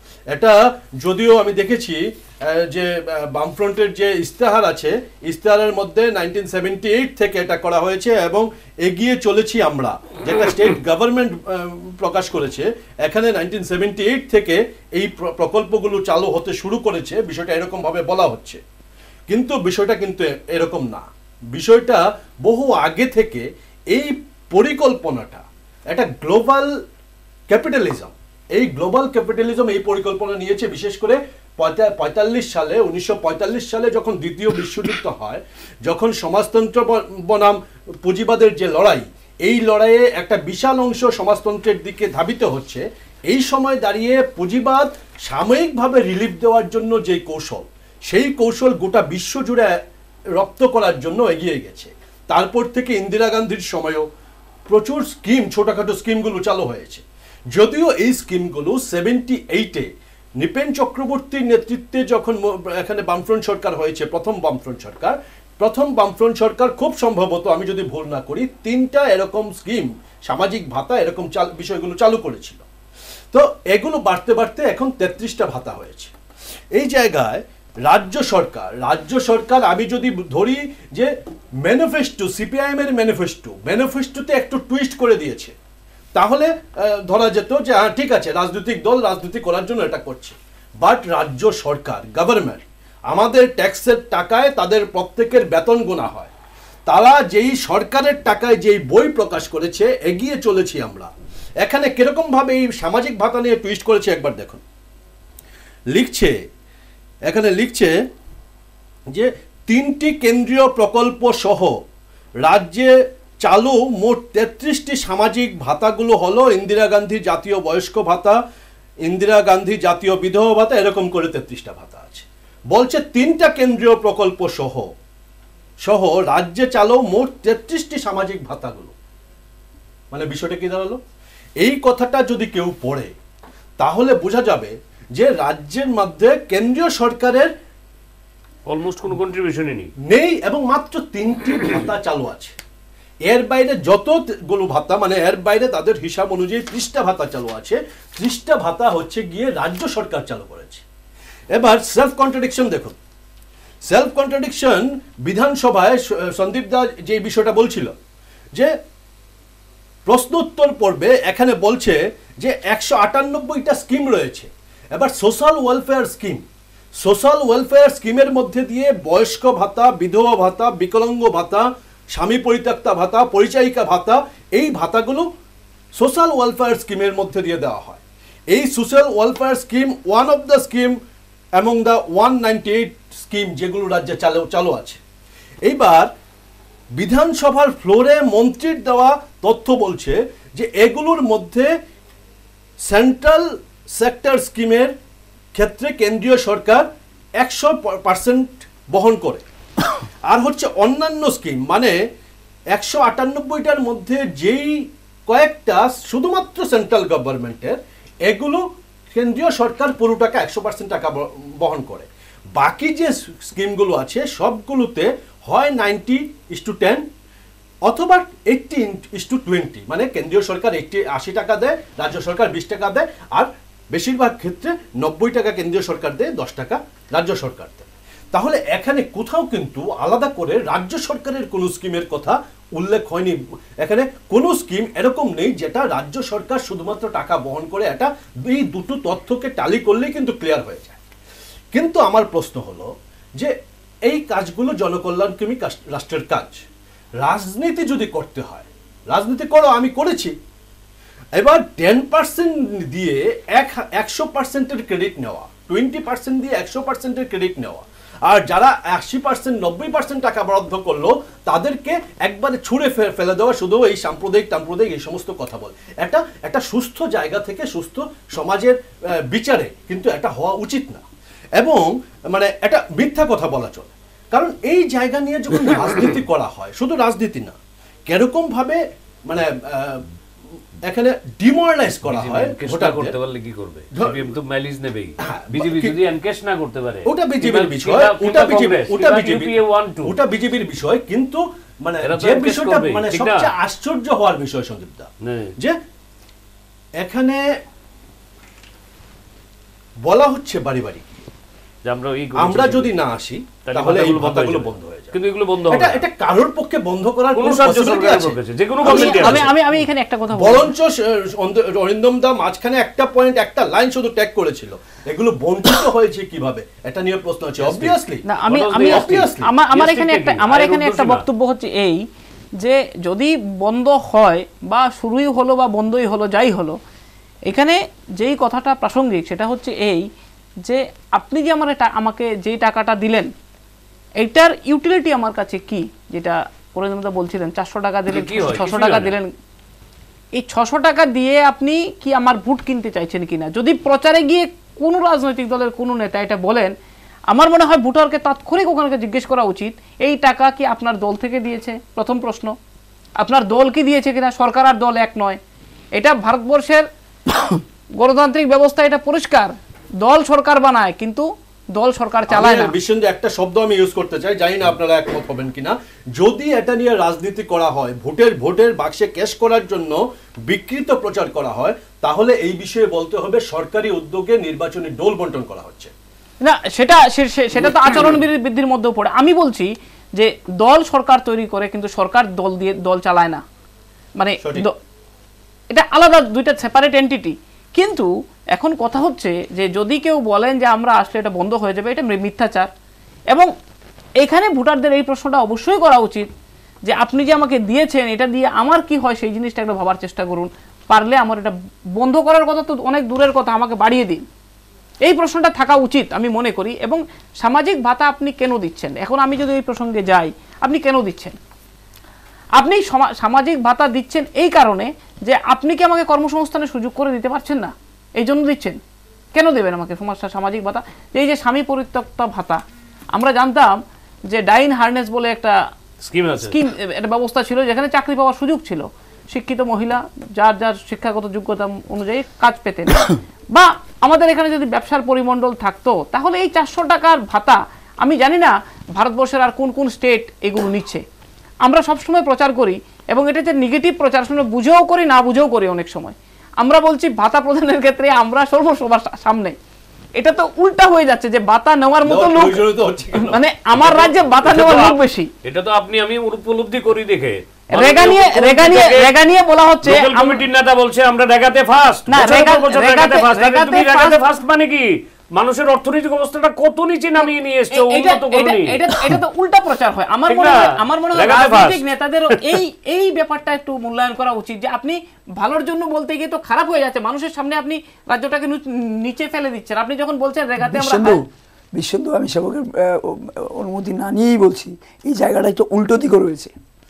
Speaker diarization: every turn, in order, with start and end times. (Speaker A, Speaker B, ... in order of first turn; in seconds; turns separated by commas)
Speaker A: 0.3-18.6, Speaker A: 19.3-26.7, Speaker A: 27.5-49.8, Speaker A: 50.4-54.0, Speaker A: 54.7-72.6, Speaker A: 73.3-76.1, Speaker A: 76.7-85.5, Speaker A: 86.1-96.3, Speaker A: 96.9-101.1, Speaker A: 101.6-104.6, Speaker A: 105.9-106.3, Speaker A: 107.2-107.9, Speaker A: 109.1-111.8, Speaker A: 112.4-118.4, Speaker A: 119.0-124.9, Speaker A: 125.8-128.9, Speaker A: 130.1-131.0, Speaker A: 131.6-133.1, Speaker A: 133.8-137.5, Speaker B: 138.7-139.9, Speaker A: 140.0-142.5, Speaker A: 143.2-150.8, Speaker A: 151.5-153.0, Speaker A: 153.8-158.0, Speaker A: 160.1-166.4, Speaker A: 167.0-175.3, Speaker A: 175.9-181.0, Speaker A: 181.6-185.0, Speaker A: 185.6-186.1, Speaker A: 186.9-191.7, Speaker A: 192.8-194.9, Speaker A: 195.5-196.8, Speaker A: 197.4-199.4, Speaker A: 200.3-202.0, Speaker A: 202.7-217.1, Speaker A: 217.8-241.0, Speaker A: 241.7-246.6, Speaker A: 247.2-250.3, Speaker A: 251.3-268.8, Speaker A: 269.3-271.0, Speaker A: 271.6-277.6, Speaker A: 278.1-280.0, Speaker A: 280.9-283.1, Speaker B: 282.0-290.1, Speaker A: 283.9-284.2, Speaker A: 285.2-286.0, Speaker A: 287.1-295.8, Speaker B: 292.0-293.5, Speaker B: 295.2-295.5, Speaker A: 297.0-297.4, Speaker A: 300.0-301.2, Speaker B: 301.8-302.9, Speaker A: 302.4-305.2, Speaker B: 303.7-306.0, Speaker A: 305.7-309.6, Speaker B: 307.3-309.5, Speaker C: 308.8-310.7, Speaker A: 310.3-319.5, Speaker B: 317.6-321.2, Speaker C: 318.2-322.0, Speaker C: 322.6-326.8, Speaker C: 327.5-330.1, Speaker C: 330.6-333.3, Speaker C: 334.2-339.3, Speaker B: 338.1-339.2, Speaker C: 340.3-346.7, Speaker C: 347.3-352.5, Speaker C: 353.2-355.4, Speaker C: 356.0-356.8, Speaker C: 358.0-362.7, Speaker A: 362.3-375.9, Speaker C: 376.4-383.4, Speaker C: 384.2-384.8, Speaker C: 385.7-392.7, Speaker C: 394.2-396.3, Speaker C: 396.9-404.2, Speaker C: 405.0-411.4, Speaker C: 412.6-418.8, Speaker C: 419.3-422.6, Speaker C: 423.1-425.6, Speaker B: 426.0-426.5, Speaker C: 426.4-441.0, Speaker C: 441.6-449.6, Speaker C: 450.2-455.3, Speaker A: 452.1-453.4, Speaker B: 453.8-459.1, Speaker C: 457.7-460.4, Speaker B: 459.8-469.2, Speaker C: 462.1-464.2, Speaker C: 467.2-481.2, Speaker B: 470.3-470.6, Speaker B: 471.1-472.4, Speaker D: 480.6-486.5